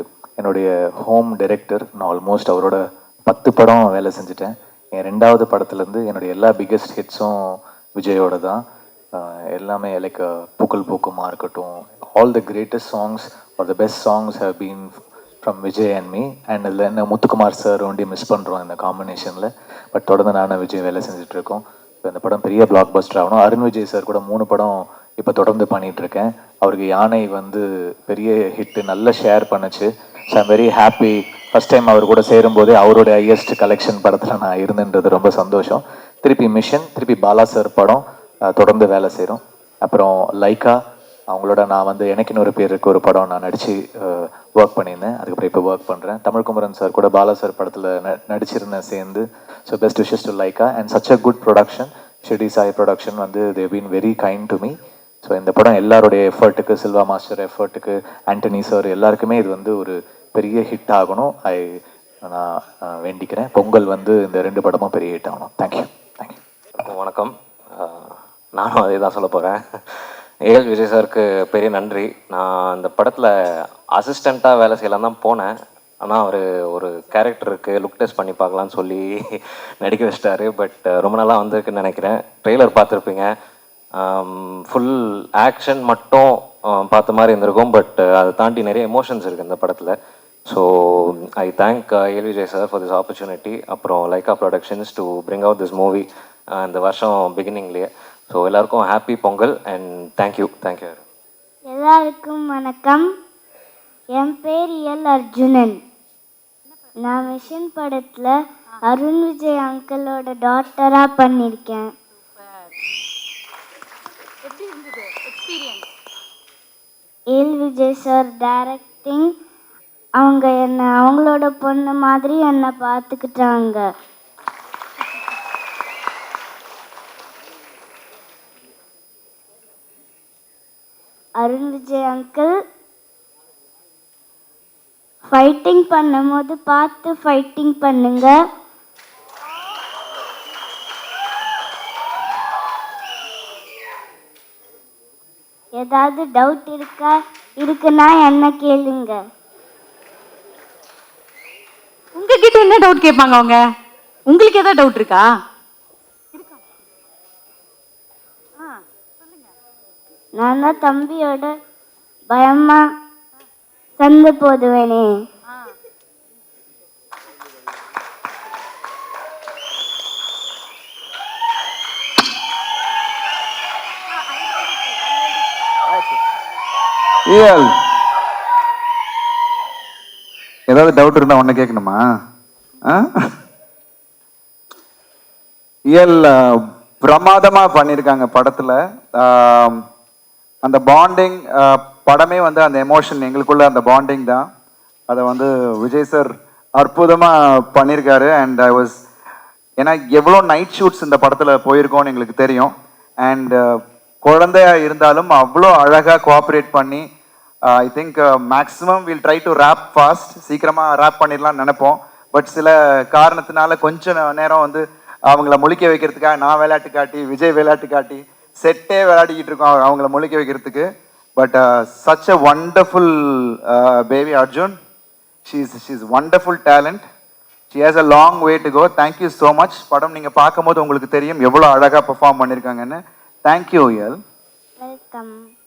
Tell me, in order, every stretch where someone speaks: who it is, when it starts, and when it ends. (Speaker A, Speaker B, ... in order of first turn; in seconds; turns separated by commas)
Speaker A: 0.4-8.6, Speaker A: 9.2-40.8, Speaker A: 41.3-66.4, Speaker B: 66.8-69.6, Speaker B: 70.5-73.3, Speaker B: 73.9-75.5, Speaker B: 76.0-83.3, Speaker B: 84.0-90.0, Speaker B: 90.5-101.0, Speaker C: 101.7-103.0, Speaker C: 104.2-105.8, Speaker C: 107.0-108.3, Speaker C: 108.9-111.9, Speaker D: 114.5-115.9, Speaker C: 117.3-119.3, Speaker C: 120.2-123.9, Speaker C: 131.4-132.5, Speaker C: 135.3-138.3, Speaker C: 145.8-149.2, Speaker D: 152.2-153.6, Speaker D: 154.3-155.3, Speaker D: 156.3-156.6, Speaker D: 158.6-159.5, Speaker C: 160.4-161.5, Speaker C: 162.3-162.8, Speaker C: 164.0-165.1, Speaker D: 174.3-175.5, Speaker E: 177.3-177.7, Speaker E: 180.7-182.0, Speaker E: 182.9-183.1, Speaker E: 185.9-189.8, Speaker E: 190.6-194.5, Speaker E: 195.1-199.0, Speaker E: 199.8-207.1, Speaker E: 207.7-223.1, Speaker E: 223.7-224.8, Speaker E: 225.5-227.1, Speaker E: 227.7-234.2, Speaker C: 234.8-235.3